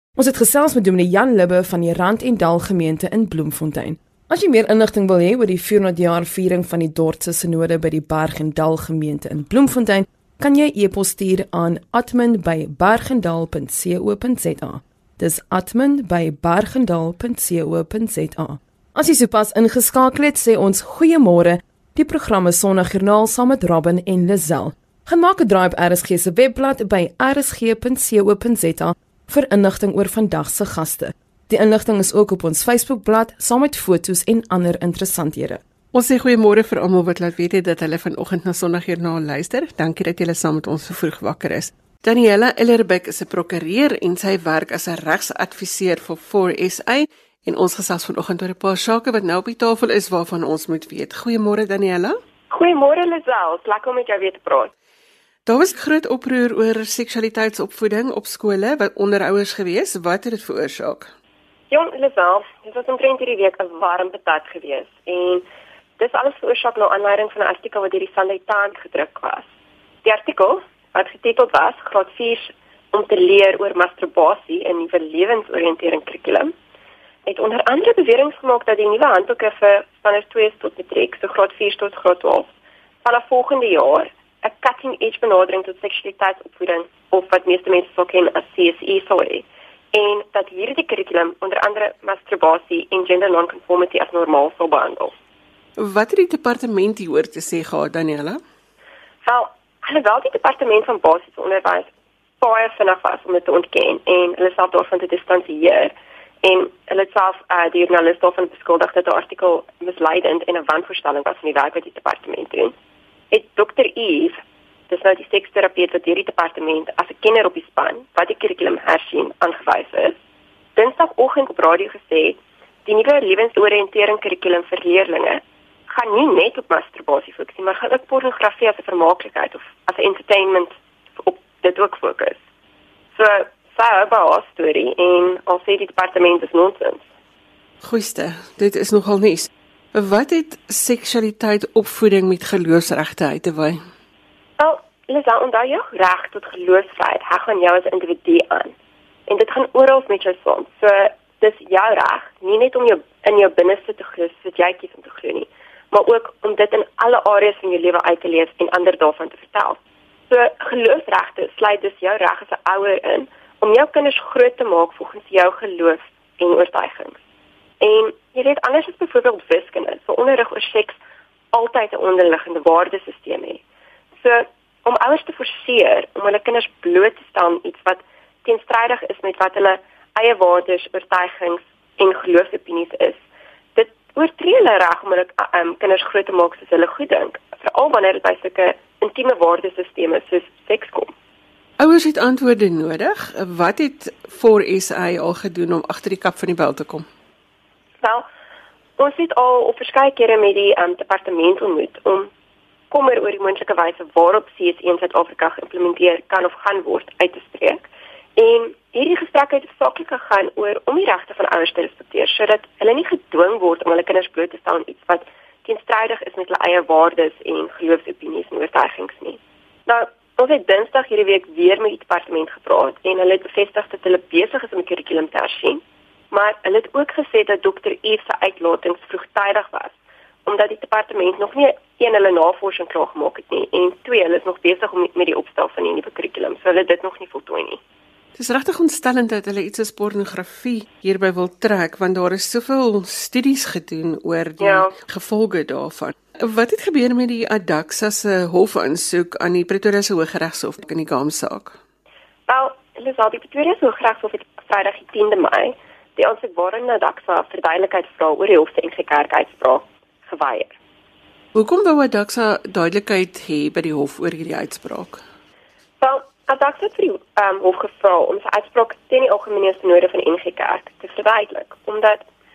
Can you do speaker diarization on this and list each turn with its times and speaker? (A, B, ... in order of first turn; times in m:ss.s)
0:00.2-0:35.6 A
0:35.9-0:52.2 B
0:52.5-0:54.7 C
0:55.5-1:01.1 B
1:01.7-1:05.4 C
1:06.0-1:09.5 C
1:10.0-1:16.5 C
1:17.3-1:22.5 C
1:23.0-1:35.1 C
1:35.8-1:38.4 B
1:39.2-1:41.9 C
1:42.4-1:45.9 C
1:46.4-1:52.7 C
1:53.3-1:54.4 C
1:54.9-2:00.2 C
2:00.8-2:12.4 C
2:13.2-2:17.0 C
2:17.8-2:23.8 B
2:24.6-2:28.7 C
2:29.3-2:39.8 C
2:40.3-2:47.2 C
2:47.8-2:51.0 C
2:51.5-2:53.6 C
2:54.2-3:03.2 C
3:03.8-3:11.1 C
3:11.8-3:17.1 B
3:19.0-3:22.3 C
3:22.9-3:49.9 C
3:50.4-3:57.8 C
3:58.4-4:11.8 B
4:04.6-4:05.0 C
4:12.5-4:20.7 C
4:21.6-4:25.2 B
4:26.0-4:32.2 C